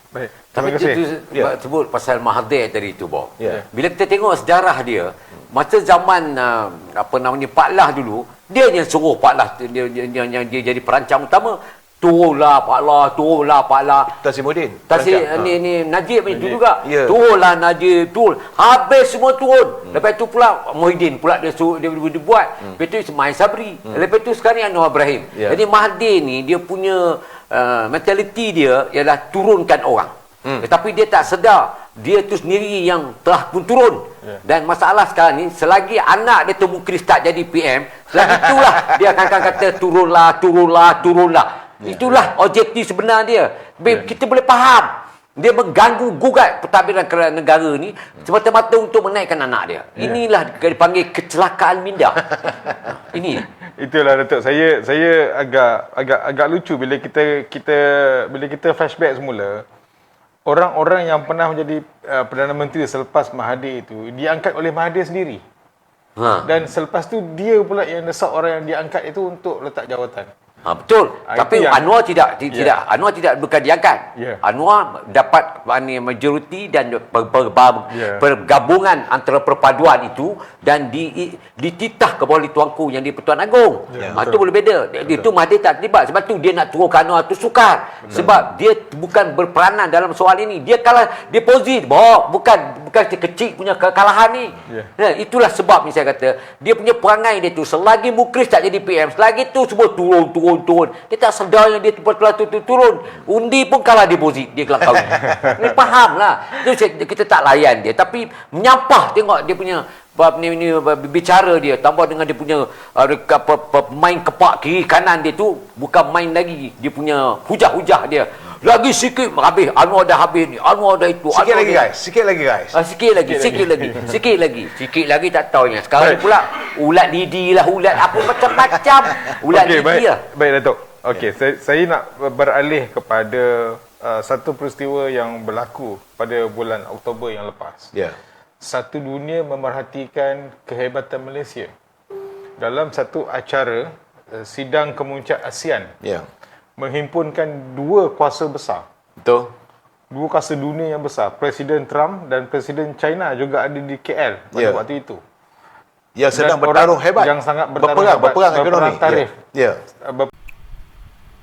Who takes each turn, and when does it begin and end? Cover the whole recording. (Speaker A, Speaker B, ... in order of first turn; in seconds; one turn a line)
Speaker A: 0.1-1.0
Speaker B: 0.5-14.1
Speaker C: 3.4-3.6
Speaker C: 14.2-15.6
Speaker B: 14.9-53.5
Speaker C: 16.3-17.2
Speaker C: 25.3-25.6
Speaker C: 38.2-39.0
Speaker C: 41.8-42.3
Speaker A: 53.8-59.6
Speaker A: 60.5-65.4
Speaker B: 66.2-66.5
Speaker A: 66.4-70.3
Speaker B: 70.6-121.9
Speaker A: 71.3-71.8
Speaker A: 72.5-72.8
Speaker A: 74.2-74.4
Speaker A: 77.9-78.2
Speaker A: 83.9-84.2
Speaker C: 121.3-122.8
Speaker B: 122.7-130.2
Speaker A: 123.2-124.0
Speaker A: 129.5-137.9
Speaker C: 137.9-138.2
Speaker A: 138.6-141.7
Speaker A: 142.6-145.9
Speaker C: 146.0-146.3
Speaker A: 146.8-148.8
Speaker C: 149.2-149.5
Speaker A: 150.1-155.2
Speaker C: 154.5-154.8
Speaker C: 156.2-159.8
Speaker A: 156.3-159.3
Speaker A: 160.0-160.3